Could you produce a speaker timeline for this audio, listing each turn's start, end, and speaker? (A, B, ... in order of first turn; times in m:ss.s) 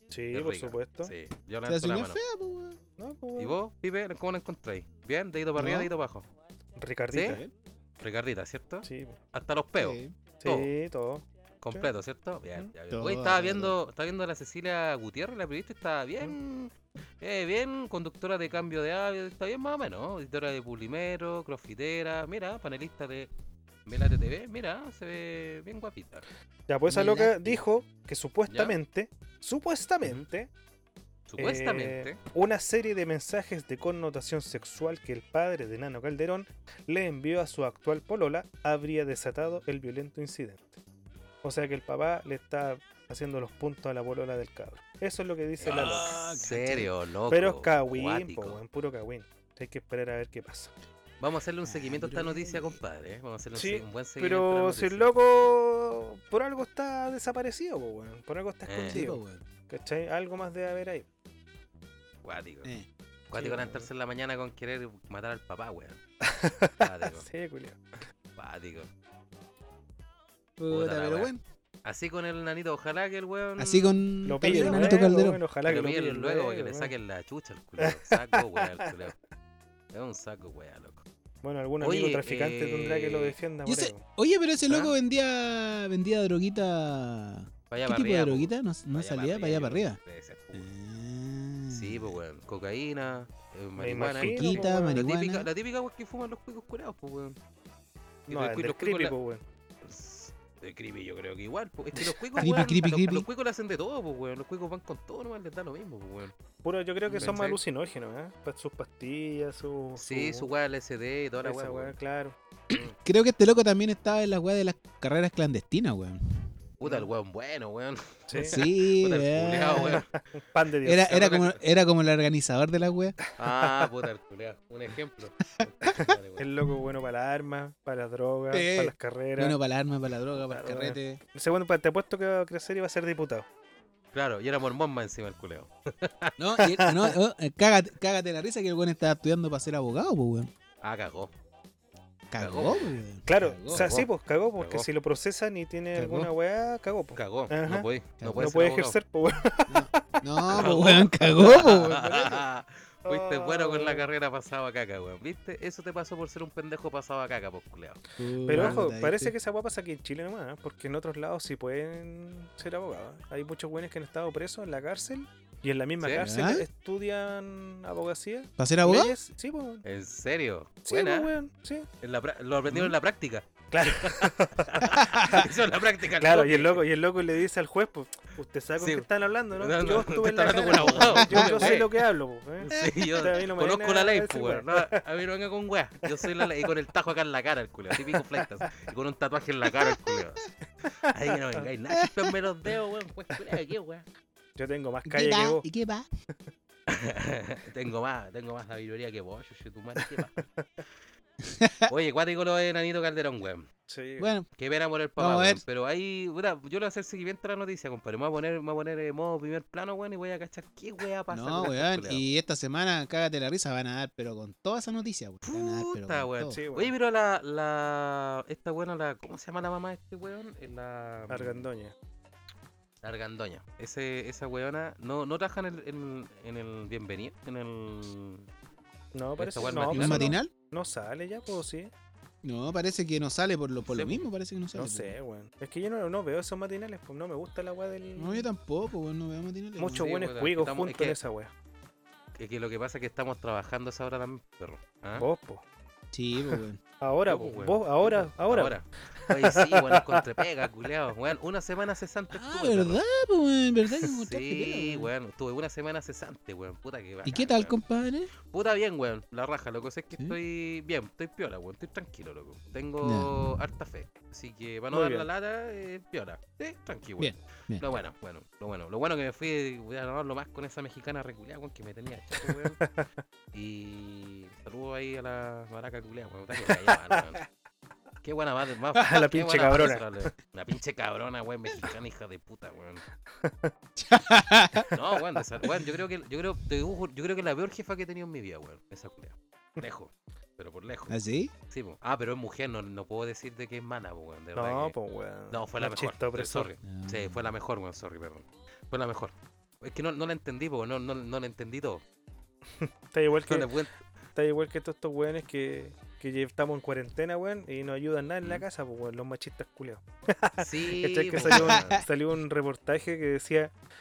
0:00.1-0:01.1 A
0:00.3-0:02.2 B
0:01.6-0:02.8 C
0:03.0-0:03.6 A
0:03.4-0:06.3 B
0:05.6-0:05.9 C
0:06.8-0:07.4 A
0:07.1-0:07.4 B
0:07.2-0:07.5 C
0:08.0-0:10.7 B
0:08.8-0:09.2 A
0:09.8-0:10.1 C
0:10.4-0:11.9 A
0:11.6-0:23.3 B
0:12.9-0:13.7 C
0:23.8-0:26.2 B
0:26.7-0:30.5 A
0:26.9-0:27.6 C
0:28.5-0:28.8 B
0:31.3-0:32.2 B
0:31.4-0:40.8 A
0:41.4-0:46.1 A
0:45.6-0:48.6 B
0:45.6-0:46.9 C
0:47.3-0:50.7 A
0:51.2-0:55.1 B
0:51.6-0:52.8 C
0:53.5-1:01.1 A
0:58.7-0:59.0 B
0:58.9-0:59.4 C
1:02.2-1:02.7 B
1:03.3-1:06.0 B
1:03.3-1:03.9 A
1:06.2-1:08.0 A
1:06.8-1:07.3 B
1:08.4-1:08.9 B
1:10.6-1:11.4 C
1:10.7-1:11.3 B
1:11.8-1:15.1 B
1:13.6-1:15.4 C
1:14.2-1:16.9 A
1:15.6-1:19.2 B
1:17.8-1:18.9 A
1:19.9-1:21.0 B
1:21.4-1:24.0 A
1:21.8-1:23.4 B
1:23.6-1:30.0 C
1:24.7-1:24.9 B
1:27.7-1:30.7 B
1:30.5-1:32.2 C
1:31.7-1:37.4 B
1:33.8-1:35.0 A
1:34.2-1:35.5 C
1:38.3-1:39.1 B
1:38.3-1:39.4 A
1:39.8-1:46.3 B
1:42.4-1:43.2 C
1:46.6-1:50.5 A
1:47.1-1:47.6 B
1:50.0-1:51.9 B
1:51.4-1:52.8 A
1:53.0-1:56.2 C
1:56.8-2:00.1 B
1:58.3-1:58.6 A
1:58.4-2:00.0 C
1:59.8-2:01.5 A
2:00.8-2:03.2 C
2:01.2-2:01.5 B
2:03.4-2:06.4 B
2:03.4-2:03.9 A
2:06.0-2:09.6 A
2:08.5-2:11.2 C
2:10.4-2:13.4 A
2:14.1-2:16.3 B
2:16.4-2:20.5 C
2:16.6-2:17.1 A
2:20.8-2:21.3 B
2:22.3-2:23.9 C
2:22.4-2:22.9 B
2:23.2-2:30.7 A
2:23.7-2:24.9 B
2:26.0-2:26.3 C
2:27.2-2:29.0 B
2:28.2-2:28.5 C
2:29.7-2:32.4 C
2:30.5-2:38.0 B
2:33.0-2:34.0 A
2:38.2-2:39.3 C
2:38.5-2:49.8 A
2:38.5-2:38.8 B
2:46.2-2:46.6 C
2:48.6-2:49.1 C
2:49.8-2:51.3 B
2:50.8-2:51.9 A
2:52.0-2:56.8 B
2:53.7-2:55.4 A
2:55.0-2:55.4 C
2:56.2-3:04.9 A
2:58.8-3:02.0 B
3:00.9-3:01.8 C
3:02.6-3:10.5 B
3:11.0-3:14.0 B
3:14.6-3:15.6 A
3:15.0-3:16.1 C
3:16.9-3:20.4 B
3:21.4-3:21.9 C
3:21.9-3:23.7 B
3:23.9-3:24.3 A
3:24.2-3:24.5 C
3:24.6-3:32.2 B
3:25.2-3:25.6 C
3:31.3-3:36.6 C
3:35.4-3:41.6 B
3:36.5-3:36.9 A
3:41.3-3:41.9 A
3:43.0-3:48.5 B
3:49.1-3:51.9 A
3:49.4-3:50.4 B
3:49.9-3:50.5 C
3:52.4-3:55.1 C
3:53.8-3:54.3 B
3:54.7-3:58.5 A
3:58.2-4:00.0 C
3:59.8-4:01.5 A
3:59.9-4:01.2 B
4:02.4-4:05.2 B
4:05.2-4:05.6 A
4:06.1-4:06.8 C
4:07.0-4:10.2 A
4:07.3-4:13.0 B
4:12.3-4:15.1 C
4:14.1-4:17.8 B
4:17.2-4:18.3 C
4:18.4-4:32.8 B
4:23.0-4:23.3 C
4:24.9-4:25.3 A
4:27.2-4:27.8 C
4:32.4-4:33.1 A
4:33.5-4:37.4 B
4:36.7-4:37.2 A
4:38.2-4:43.0 B
4:39.0-4:40.2 A
4:43.4-4:43.7 A
4:44.0-4:44.9 C
4:44.9-4:51.2 B
4:51.1-4:51.5 C
4:51.7-4:54.9 B
4:54.5-4:56.7 A
4:55.5-5:02.0 B
4:56.8-4:57.5 C
5:02.8-5:03.7 A
5:03.5-5:04.0 B
5:04.3-5:13.7 A
5:10.6-5:12.0 B
5:11.4-5:12.0 C